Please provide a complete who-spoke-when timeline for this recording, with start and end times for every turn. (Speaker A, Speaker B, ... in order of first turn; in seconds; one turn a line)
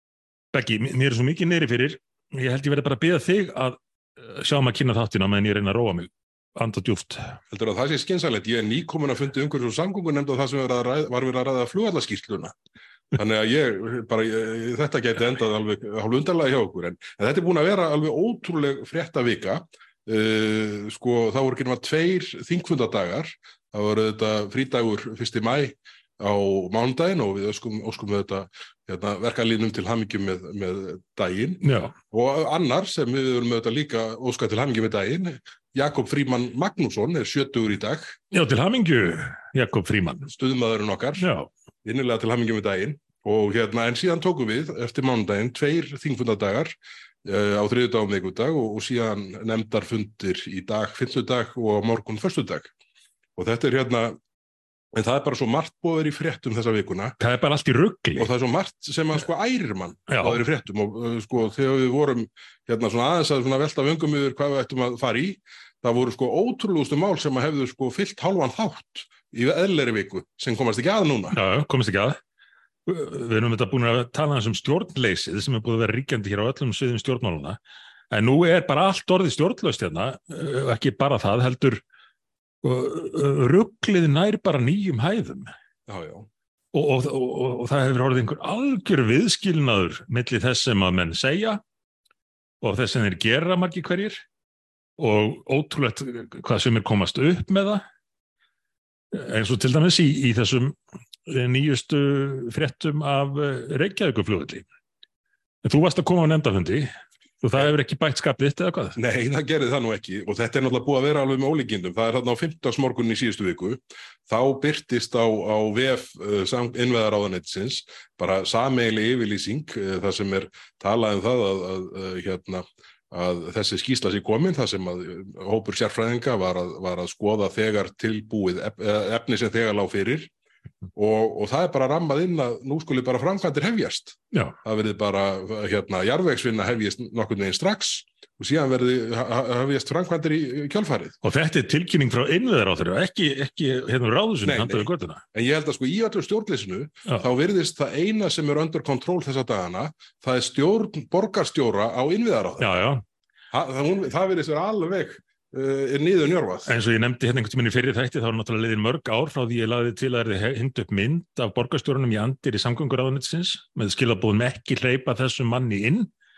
Speaker A: 0.5-7.4
Speaker B: 7.5-12.6
Speaker B: 13.1-38.2
Speaker A: 31.6-32.0
Speaker A: 38.3-40.3
Speaker B: 40.3-41.2
Speaker A: 41.2-41.5
Speaker B: 41.8-52.7
Speaker B: 53.4-54.2
Speaker B: 54.9-57.2
Speaker A: 57.2-58.3
Speaker B: 58.2-71.4
Speaker A: 60.1-60.4
Speaker A: 71.3-72.2
Speaker A: 72.9-77.6
Speaker A: 78.1-81.8
Speaker A: 82.6-85.5
Speaker B: 85.9-86.3
Speaker A: 86.7-91.6
Speaker A: 92.6-94.2
Speaker A: 95.0-97.8
Speaker A: 99.1-104.6
Speaker A: 105.6-109.0
Speaker B: 109.0-130.3
Speaker B: 130.9-141.2
Speaker A: 141.2-145.2
Speaker B: 144.4-152.7
Speaker A: 152.6-153.0
Speaker B: 153.5-156.7
Speaker A: 156.7-166.1